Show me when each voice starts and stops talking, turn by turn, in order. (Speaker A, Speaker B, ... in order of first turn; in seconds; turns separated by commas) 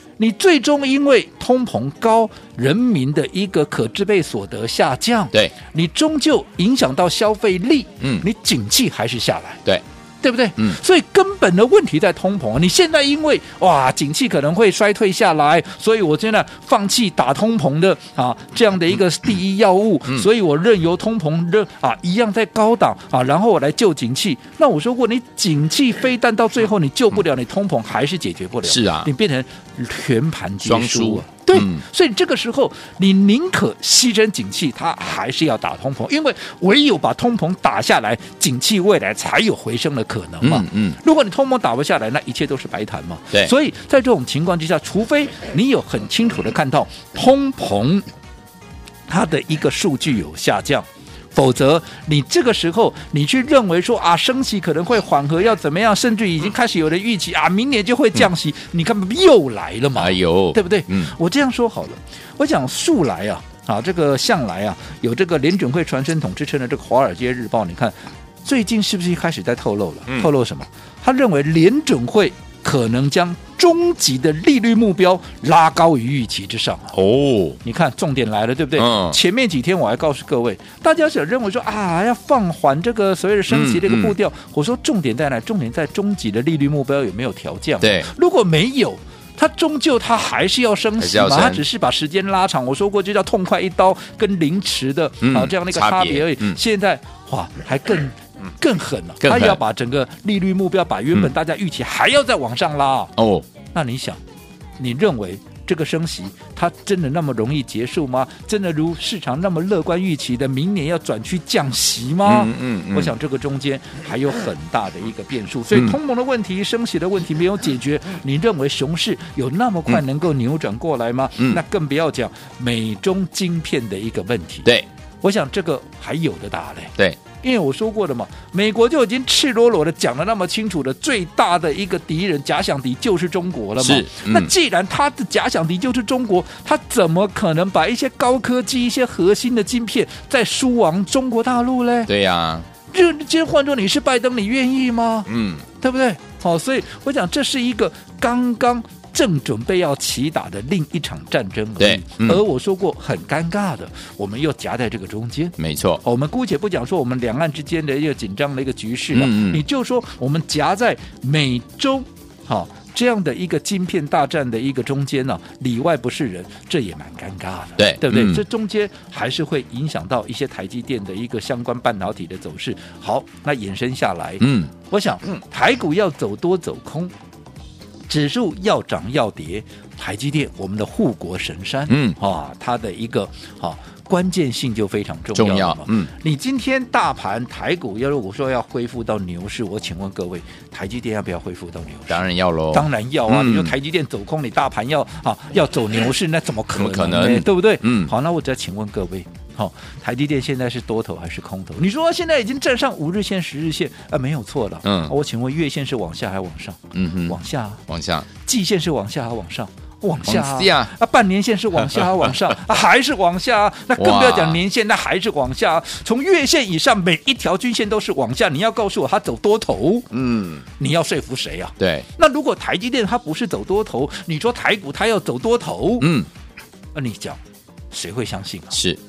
Speaker A: 0.2-9.6, Speaker A: 10.2-48.1, Speaker B: 28.6-29.1, Speaker B: 30.6-31.8, Speaker B: 40.4-41.0, Speaker A: 49.1-76.9, Speaker B: 60.0-61.1, Speaker B: 76.9-77.6, Speaker A: 77.6-103.2, Speaker B: 78.8-79.2, Speaker B: 83.5-84.2, Speaker B: 87.8-88.1, Speaker B: 91.0-91.6, Speaker B: 95.2-96.6, Speaker B: 99.2-99.6, Speaker B: 103.2-103.5, Speaker A: 103.7-104.2, Speaker A: 104.8-124.7, Speaker B: 112.3-113.1, Speaker A: 125.2-142.1, Speaker B: 133.8-134.5, Speaker B: 142.1-142.7, Speaker A: 142.9-145.3, Speaker B: 145.3-145.7, Speaker A: 145.8-177.1, Speaker B: 151.8-152.4, Speaker B: 155.6-156.0, Speaker B: 159.1-159.6, Speaker B: 167.8-168.4, Speaker B: 174.4-174.7, Speaker A: 178.1-207.8, Speaker B: 181.9-182.2, Speaker B: 185.3-186.1, Speaker B: 192.1-193.7, Speaker B: 196.7-198.1, Speaker B: 204.8-205.1, Speaker B: 206.9-208.3, Speaker A: 208.4-220.1, Speaker B: 210.2-210.9, Speaker B: 214.0-214.6, Speaker B: 220.1-220.7, Speaker A: 220.8-226.1, Speaker B: 221.8-222.1, Speaker B: 226.0-226.3, Speaker A: 226.9-228.8, Speaker B: 228.7-229.0